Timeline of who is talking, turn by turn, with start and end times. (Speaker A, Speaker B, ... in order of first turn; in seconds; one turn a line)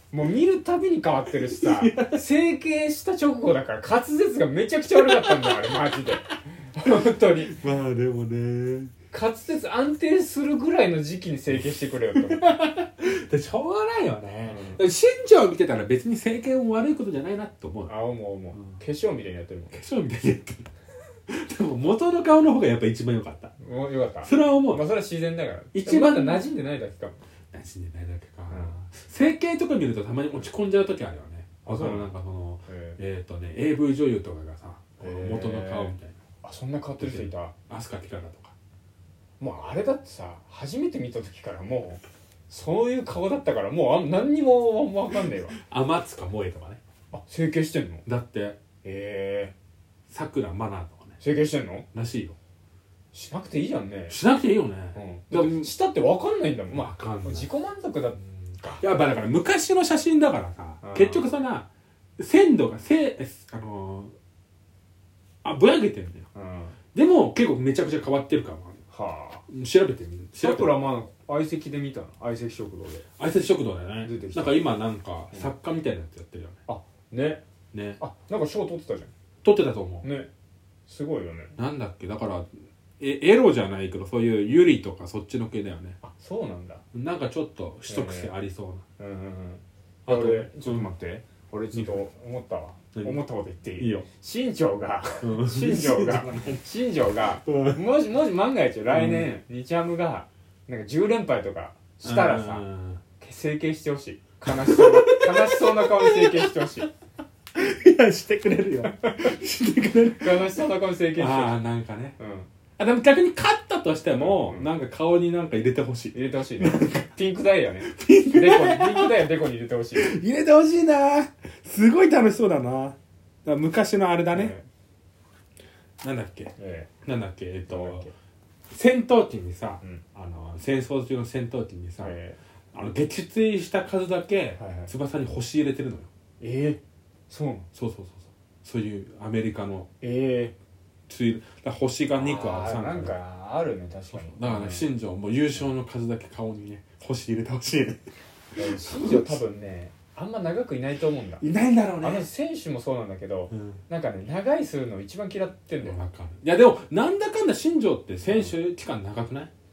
Speaker A: 0.1-7.5
Speaker B: 1.5-2.2
Speaker B: 5.0-6.1
Speaker B: 7.4-8.9
Speaker A: 9.1-12.5
Speaker B: 11.5-17.9
Speaker A: 14.5-14.8
Speaker A: 17.9-19.8
Speaker B: 19.7-20.7
Speaker B: 21.3-23.6
Speaker A: 23.6-27.2
Speaker B: 24.2-24.8
Speaker B: 25.7-26.5
Speaker B: 27.5-36.2
Speaker A: 28.5-28.8
Speaker A: 31.6-32.1
Speaker A: 32.7-33.0
Speaker A: 35.0-37.5
Speaker B: 37.0-38.5
Speaker A: 39.4-45.6
Speaker B: 45.6-46.8
Speaker A: 47.1-48.0
Speaker B: 48.1-48.6
Speaker A: 48.8-49.5
Speaker B: 50.1-51.2
Speaker A: 51.2-51.9
Speaker B: 51.9-52.4
Speaker A: 53.1-54.2
Speaker B: 54.1-55.7
Speaker A: 55.0-58.8
Speaker B: 56.7-57.5
Speaker B: 58.8-64.1
Speaker A: 60.8-61.3
Speaker B: 65.4-66.3
Speaker A: 66.3-66.8
Speaker B: 66.9-68.8
Speaker A: 68.9-69.4
Speaker B: 69.5-70.8
Speaker A: 70.4-73.1
Speaker B: 73.2-76.6
Speaker A: 74.0-74.6
Speaker A: 76.7-77.4
Speaker B: 77.7-78.0
Speaker A: 78.0-79.1
Speaker B: 79.4-80.1
Speaker A: 80.0-80.3
Speaker A: 80.9-81.5
Speaker B: 81.6-86.0
Speaker A: 86.0-86.8
Speaker B: 86.9-88.8
Speaker A: 87.9-88.3
Speaker A: 89.0-102.7
Speaker B: 90.1-90.9
Speaker B: 91.7-92.0
Speaker B: 93.8-94.1
Speaker B: 95.2-96.6
Speaker B: 97.5-97.8
Speaker B: 98.9-99.3
Speaker B: 102.0-103.0
Speaker A: 103.2-106.9
Speaker B: 104.5-106.8
Speaker B: 107.5-112.2
Speaker A: 109.0-109.3
Speaker A: 110.2-111.6
Speaker A: 112.2-112.5
Speaker B: 112.8-117.2
Speaker A: 114.2-114.7
Speaker A: 116.1-120.2
Speaker B: 117.8-119.3
Speaker B: 120.0-124.5
Speaker A: 124.3-124.7
Speaker B: 126.0-126.5
Speaker A: 126.6-126.9
Speaker B: 127.0-128.1
Speaker A: 127.7-128.1
Speaker B: 128.7-132.2
Speaker A: 132.0-132.4
Speaker B: 132.7-136.1
Speaker A: 134.6-134.9
Speaker A: 136.4-137.7
Speaker B: 137.7-139.9
Speaker A: 140.0-140.6
Speaker B: 141.1-143.1
Speaker A: 142.1-144.9
Speaker B: 144.1-148.0
Speaker A: 148.6-151.4
Speaker B: 148.6-149.4
Speaker B: 151.4-152.3
Speaker A: 152.0-156.0
Speaker B: 153.5-153.8
Speaker B: 155.8-159.5
Speaker A: 158.3-158.5